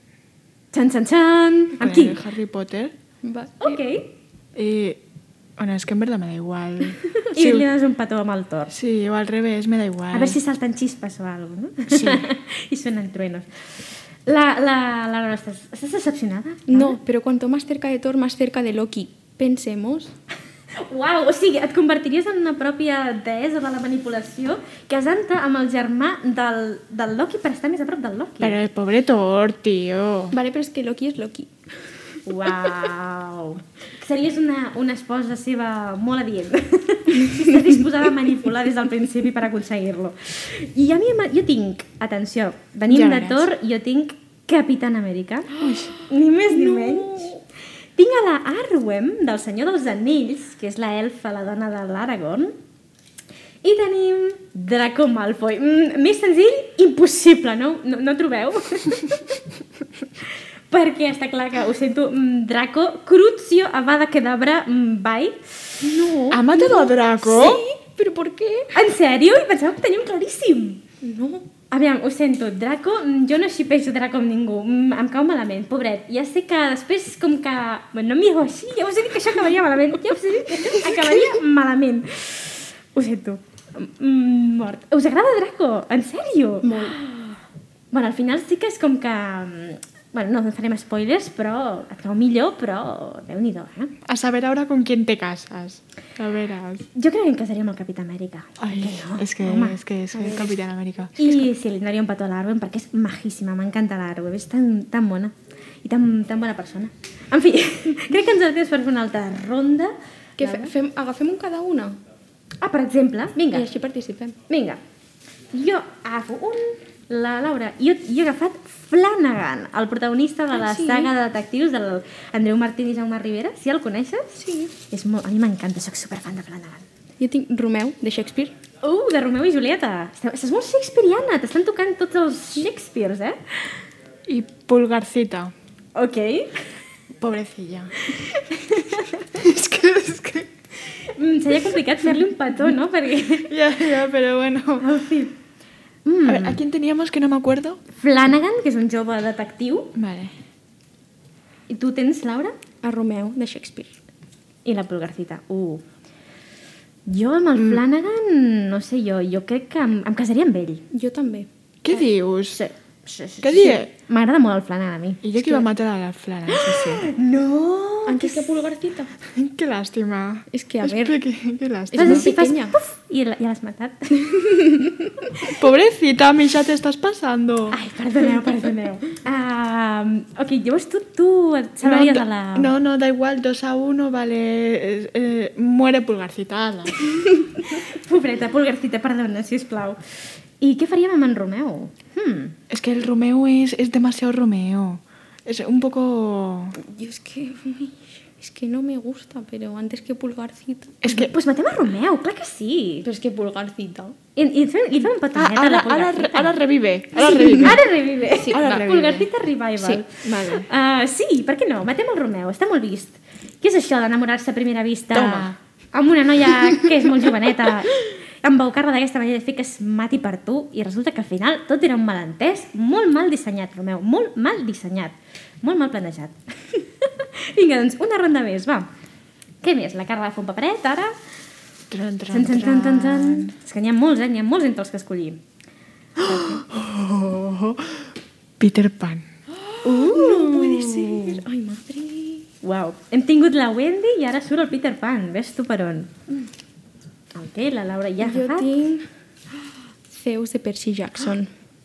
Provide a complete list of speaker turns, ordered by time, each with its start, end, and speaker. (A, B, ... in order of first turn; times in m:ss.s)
0:00.7-0:02.2 A
0:01.8-0:02.9 B
0:03.2-0:03.8 C
0:03.6-0:04.1 A
0:04.6-0:05.0 B
0:05.6-0:07.7 B
0:07.3-0:08.7 A
0:08.7-0:10.4 B
0:10.1-0:13.7 A
0:11.9-0:12.3 B
0:14.3-0:17.0 A
0:16.7-0:20.1 C
0:20.8-0:28.6 A
0:28.4-0:30.4 B
0:30.3-0:31.5 C
0:32.2-0:47.3 A
0:32.5-0:32.9 C
0:37.3-0:37.7 C
0:42.9-0:43.5 B
0:45.6-0:45.9 B
0:46.5-0:47.4 C
0:48.0-0:52.6 A
0:53.6-0:59.4 A
1:00.7-1:05.6 A
1:05.8-1:08.7 C
1:06.3-1:07.6 B
1:08.7-1:10.8 A
1:11.0-1:11.5 C
1:11.7-1:27.1 A
1:20.6-1:21.3 C
1:26.6-1:27.0 C
1:27.9-1:33.9 A
1:34.0-1:36.9 B
1:36.9-1:39.8 A
1:38.6-1:41.4 B
1:40.1-1:40.6 C
1:41.2-1:50.7 A
1:50.4-1:52.0 C
1:52.6-1:53.7 A
1:53.4-1:54.4 C
1:54.5-1:54.8 A
1:55.5-2:06.8 A
2:00.5-2:01.1 C
2:04.4-2:04.7 C
2:07.2-2:08.5 C
2:08.8-2:13.4 A
2:14.3-2:15.5 B
2:16.0-2:16.7 A
2:17.2-2:18.1 B
2:18.1-2:19.2 A
2:18.7-2:20.5 B
2:21.1-2:23.5 A
2:23.5-2:24.9 B
2:24.8-2:25.4 A
2:26.0-2:26.6 A
2:26.3-2:27.8 B
2:27.9-2:29.9 A
2:30.0-2:30.3 B
2:31.7-2:32.6 A
2:32.8-2:34.0 C
2:34.6-2:35.8 A
2:37.1-2:40.9 A
2:40.9-2:41.5 C
2:41.8-2:42.6 B
2:42.5-2:45.2 A
2:43.4-2:43.9 B
2:45.2-2:47.1 B
2:46.5-2:48.6 A
2:48.1-2:49.1 C
2:49.3-2:52.3 B
2:50.5-2:51.2 C
2:51.9-2:52.8 C
2:52.0-2:54.5 A
2:54.5-2:54.8 C
2:55.5-2:57.8 B
2:57.7-3:02.7 A
3:01.8-3:07.0 B
3:07.6-3:10.0 A
3:10.6-3:12.6 A
3:12.7-3:16.8 B
3:16.8-3:21.2 C
3:21.0-3:21.3 B
3:21.1-3:23.1 A
3:23.0-3:24.2 C
3:24.4-3:26.6 A
3:25.3-3:27.8 B
3:27.2-3:48.9 A
3:27.4-3:27.7 C
3:28.4-3:28.8 C
3:28.5-3:29.3 B
3:30.2-3:30.7 B
3:35.1-3:35.6 B
3:49.6-3:51.1 A
3:51.9-3:53.5 B
3:52.3-3:55.4 A
3:56.2-3:58.0 B
3:56.2-3:56.6 A
3:58.6-3:59.3 B
3:59.8-4:02.5 C
3:59.8-4:01.4 B
3:59.9-4:00.5 A
4:02.6-4:06.2 A
4:07.3-4:08.7 A
4:08.2-4:09.0 C
4:10.1-4:11.5 C